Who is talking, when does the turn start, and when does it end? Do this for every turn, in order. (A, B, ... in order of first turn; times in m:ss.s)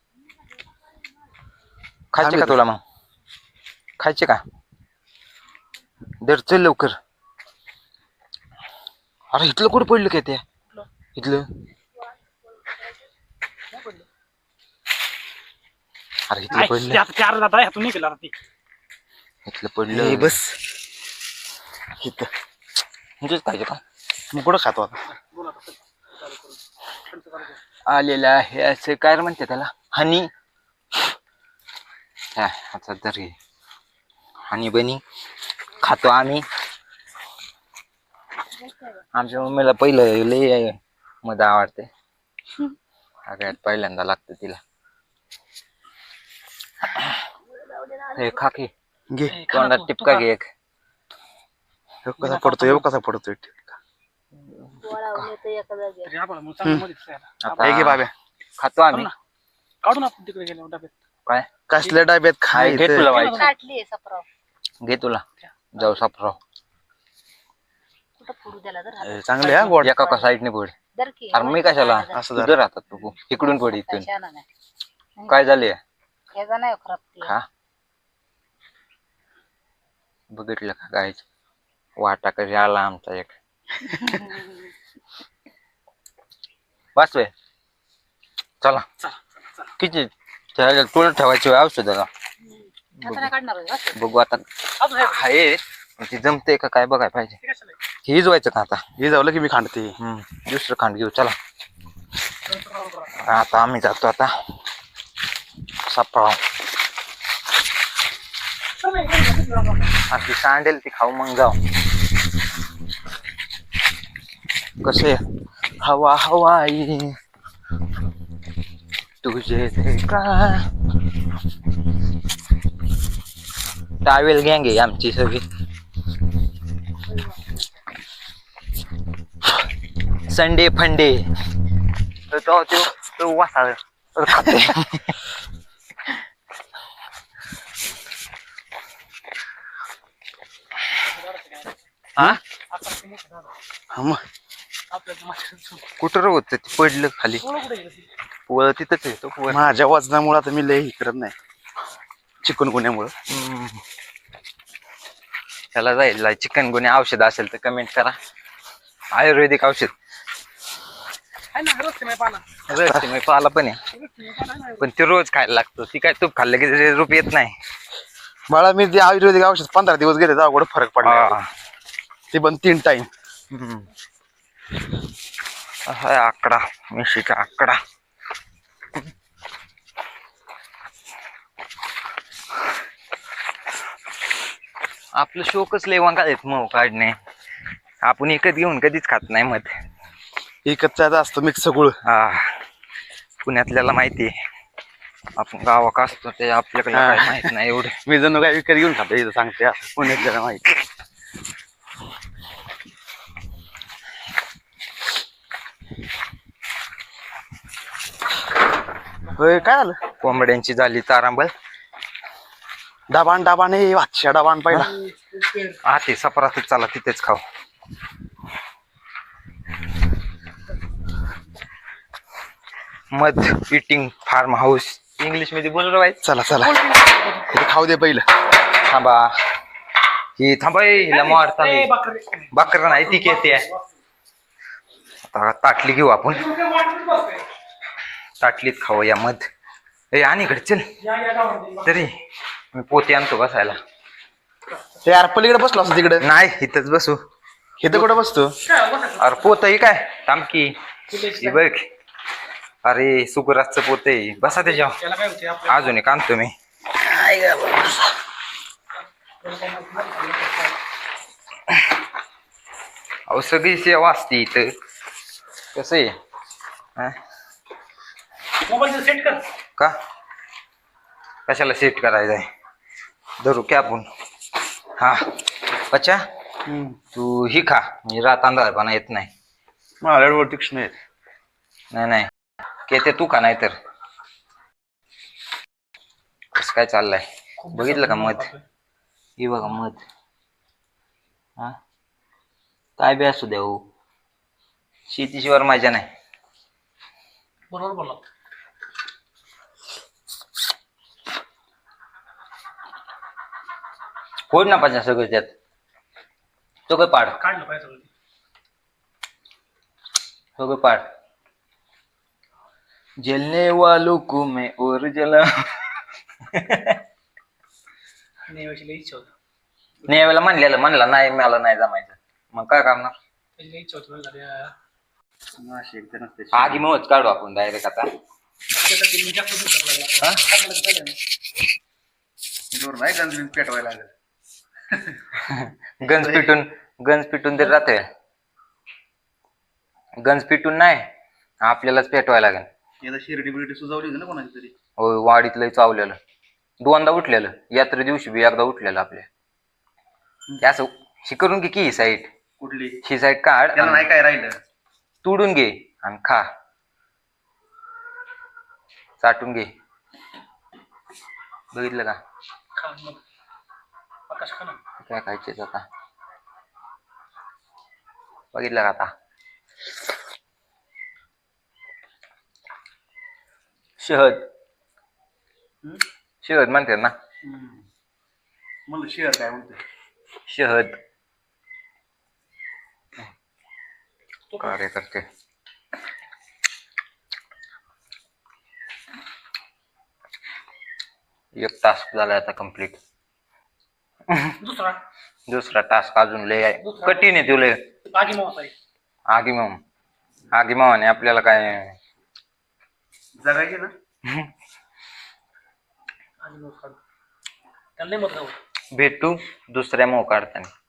0:02.1-0:02.8 A
0:02.2-0:02.6 B
0:04.0-0:04.4 A
0:06.2-0:07.0 A
0:09.3-0:10.4 A
0:11.2-0:11.5 A
0:13.7-0:14.1 C
0:16.3-0:17.0 A
0:16.5-0:18.4 C
0:19.5-0:20.4 A
0:19.9-0:20.6 B
0:22.0-0:22.3 B
0:23.2-0:23.8 A
0:24.3-0:25.0 B
0:25.2-0:27.6 C
0:27.9-0:30.3 A
0:32.4-0:33.4 A
0:34.5-0:35.0 A
0:35.8-0:36.4 A
0:39.2-0:41.9 A
0:43.3-0:44.6 A
0:47.6-0:48.3 D
0:48.1-0:48.7 A
0:49.1-0:49.4 B
0:49.3-0:50.3 C
0:49.5-0:50.5 A
0:52.1-0:53.8 B
0:52.2-0:52.8 C
0:54.5-0:55.3 A
0:54.8-0:56.1 D
0:56.1-0:57.8 C
0:57.4-0:58.0 A
0:57.6-0:58.1 B
0:58.6-0:59.1 A
0:59.8-1:00.9 C
1:01.7-1:03.2 B
1:02.5-1:03.5 A
1:03.0-1:03.5 C
1:03.2-1:04.2 D
1:04.8-1:06.4 A
1:08.2-1:10.3 D
1:09.0-1:10.0 B
1:09.8-1:10.8 A
1:11.0-1:12.2 D
1:11.3-1:14.1 A
1:12.1-1:12.6 B
1:13.4-1:14.5 D
1:15.3-1:15.8 A
1:16.3-1:17.3 D
1:20.3-1:21.2 A
1:22.0-1:23.4 A
1:24.2-1:24.5 D
1:27.0-1:27.3 A
1:29.8-1:32.1 A
1:33.0-1:33.3 A
1:33.0-1:34.0 D
1:33.9-1:37.4 A
1:34.8-1:35.3 C
1:37.4-1:37.8 C
1:38.0-1:38.8 A
1:39.0-1:40.0 B
1:40.0-1:41.4 A
1:42.5-1:43.1 C
1:43.2-1:44.3 A
1:45.9-1:46.4 A
1:48.8-1:49.9 C
1:50.1-1:51.6 A
1:54.8-1:55.2 A
1:55.8-1:57.1 A
1:59.2-2:00.7 A
2:04.0-2:05.4 A
2:10.2-2:11.3 A
2:12.3-2:15.1 A
2:21.1-2:21.7 C
2:22.7-2:23.5 C
2:23.9-2:24.2 B
2:24.9-2:25.8 C
2:26.0-2:27.5 A
2:27.4-2:28.1 C
2:28.5-2:29.7 A
2:29.5-2:31.4 B
2:32.4-2:33.1 B
2:33.3-2:33.8 A
2:35.7-2:38.2 A
2:39.1-2:39.9 A
2:41.5-2:42.4 C
2:42.7-2:43.8 A
2:42.7-2:43.1 B
2:44.0-2:44.8 C
2:44.8-2:47.6 A
2:48.5-2:51.4 B
2:51.0-2:51.5 A
2:52.3-2:53.1 B
2:53.5-2:53.9 A
2:55.9-2:57.8 A
3:05.2-3:07.2 A
3:08.0-3:09.7 A
3:10.6-3:12.0 B
3:12.0-3:12.5 A
3:13.4-3:14.3 A
3:15.4-3:18.0 A
3:16.9-3:17.5 B
3:18.1-3:20.8 B
3:29.4-3:30.0 B
3:30.2-3:31.5 A
3:33.1-3:34.9 B
3:35.1-3:35.8 C
3:35.8-3:37.4 A
3:43.1-3:46.2 A
3:46.2-3:46.9 B
3:46.6-3:47.5 C
3:47.5-3:48.2 B
3:48.7-3:49.3 A
3:50.4-3:51.9 A
3:51.1-3:53.8 C
3:52.5-3:53.7 A
3:55.3-3:56.5 A
3:56.4-3:57.4 C
3:58.4-3:59.4 A
4:00.1-4:00.9 A
4:01.0-4:01.9 C
4:01.8-4:02.1 A
4:02.7-4:03.8 A
4:05.0-4:06.2 B
4:06.2-4:07.2 A
4:07.8-4:08.6 B
4:08.7-4:09.6 C
4:09.2-4:11.9 A
4:11.1-4:11.6 C
4:12.8-4:15.0 A
4:14.5-4:16.0 C
4:15.7-4:16.5 A
4:17.0-4:18.1 B
4:19.4-4:20.8 C
4:23.3-4:24.7 A
4:25.7-4:26.1 A
4:28.7-4:29.5 C
4:31.5-4:32.5 A
4:33.4-4:34.1 A
4:35.9-4:36.2 A
4:36.7-4:37.0 B
4:37.2-4:39.3 A
4:40.0-4:40.9 B
4:41.9-4:42.3 A
4:42.9-4:43.8 A
4:46.6-4:48.5 A
4:47.6-4:48.6 C
4:49.4-4:50.0 A
4:53.0-4:53.8 A
4:55.1-4:56.1 A
4:57.7-4:58.2 C
5:04.5-5:05.5 A
5:06.9-5:07.4 A
5:07.4-5:08.1 C
5:10.6-5:11.1 A
5:13.2-5:15.9 A
5:16.5-5:17.0 A
5:18.5-5:19.3 C
5:20.1-5:23.2 A
5:23.6-5:24.7 C
5:25.6-5:26.9 B
5:26.5-5:28.1 A
5:28.8-5:31.2 C
5:32.7-5:34.1 B
5:34.9-5:35.2 B
5:35.4-5:38.0 A
5:36.0-5:36.6 B
5:40.2-5:41.1 A
5:41.6-5:42.7 A
5:43.0-5:44.7 B
5:45.0-5:46.2 A
5:46.8-5:49.3 A
5:50.6-5:52.3 A
5:52.6-5:53.0 B
5:53.0-5:54.1 A
5:53.8-5:54.6 B
5:55.2-5:56.4 A
5:59.2-5:59.7 A
6:01.7-6:02.2 A
6:02.8-6:03.2 C
6:04.3-6:04.8 C
6:05.0-6:05.9 A
6:08.5-6:09.1 A
6:14.0-6:14.4 A
6:16.4-6:17.2 A
6:17.4-6:17.8 B
6:18.9-6:19.8 B
6:20.5-6:20.9 A
6:24.6-6:25.3 A
6:31.6-6:33.0 A
6:34.3-6:34.6 A
6:34.6-6:35.0 C
6:35.5-6:37.8 A
6:36.8-6:37.3 C
6:38.1-6:38.7 C
6:39.3-6:39.8 A
6:40.5-6:42.0 A
6:43.4-6:43.9 B
6:46.4-6:47.0 C
6:48.0-6:48.6 C
6:48.9-6:50.7 A